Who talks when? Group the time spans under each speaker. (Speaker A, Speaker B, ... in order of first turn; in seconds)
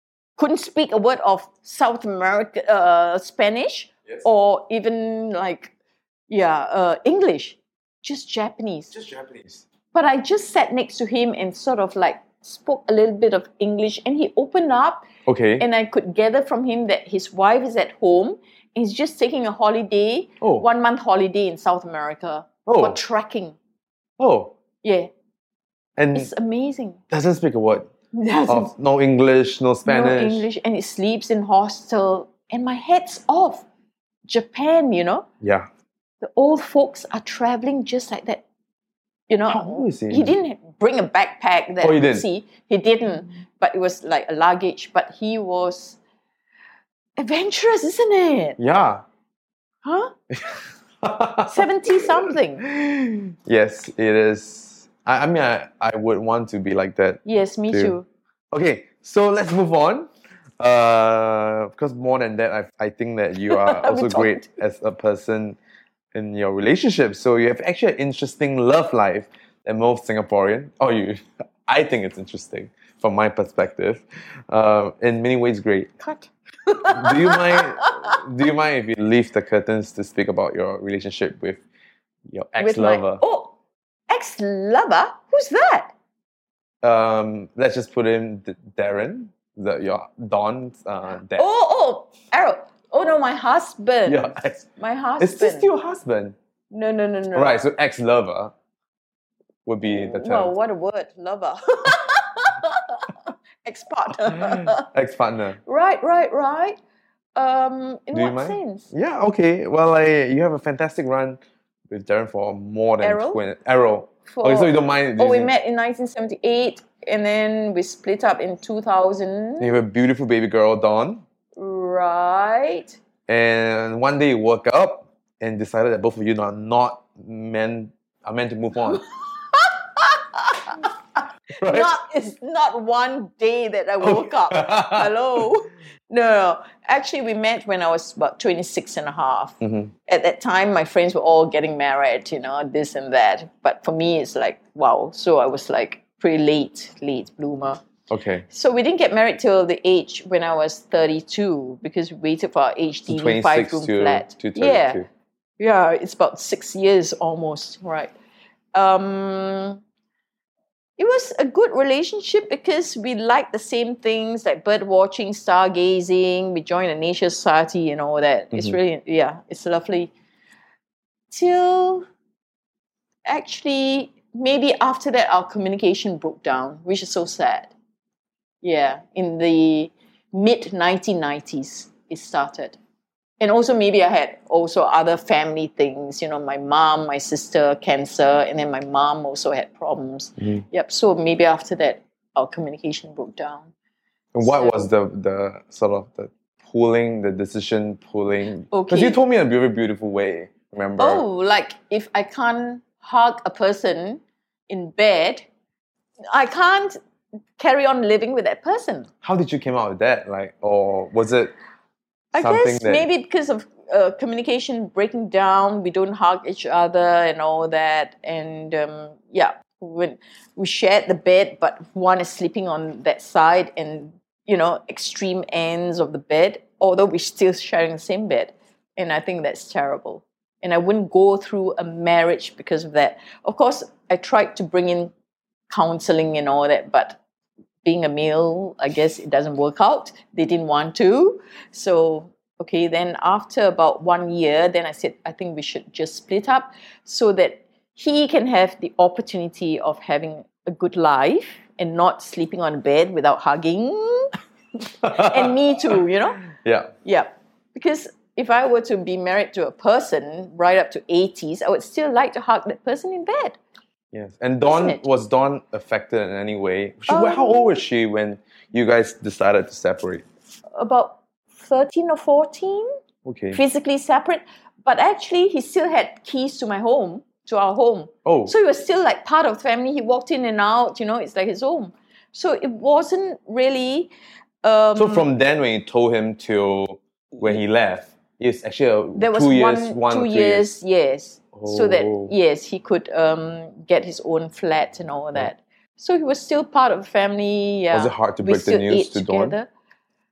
Speaker A: 0.4-5.7, 6.3-8.9, 9.9-15.0, 15.6-23.6, 24.8-25.1, 26.1-27.0, 28.1-28.7, 29.9-33.6, 34.3-35.3, 36.2-38.4, 39.3-46.0, 47.2-48.6, 49.8-50.1, 51.5-52.6, 57.2-58.0, 63.5-64.5, 76.0-78.2, 82.6-83.5, 84.1-85.9, 91.4-95.7, 96.7-97.6, 99.8-103.1, 103.6-104.9, 105.7-106.8, 107.4-108.9, 113.0-113.4, 114.3-119.8, 121.6-123.0, 129.4-147.8, 148.5-155.0, 155.6-158.1, 158.7-159.8, 161.0-170.1, 171.3-172.1, 173.3-177.7, 178.6-182.8, 183.4-193.7, 194.4-194.9, 198.7-199.2, 201.0-205.5, 206.3-207.0, 207.6-209.1, 212.3-235.1, 235.7-237.2, 237.8-254.3, 255.0-256.4, 257.0-263.6, 264.6-265.0, 267.1-267.8, 270.8-272.9, 273.5-284.1, 284.6-285.3, 287.3-287.6, 289.1-299.7
Speaker B: 8.9-9.6, 15.3-15.7, 22.7-23.0, 24.2-24.5, 26.0-26.3, 27.1-27.9, 28.5-30.5, 35.4-35.7, 39.5-40.3, 41.8-42.3, 48.6-49.0, 50.3-58.0, 58.5-60.1, 60.6-65.6, 66.1-75.9, 76.9-81.6, 82.3-83.2, 86.8-91.5, 94.1-94.6, 95.2-96.4, 97.3-98.5, 99.7-100.5, 104.3-105.6, 108.1-115.5, 119.6-121.2, 123.3-129.0, 131.5-131.9, 134.0-135.1, 139.6-139.9, 148.1-148.4, 153.1-155.1, 168.5-168.8, 194.3-201.2, 209.2-211.5, 212.4-213.1, 255.0-255.5, 256.5-256.9, 264.1-270.2, 273.2-273.6, 278.2-278.5, 285.0-290.7, 291.6-292.3, 297.9-299.6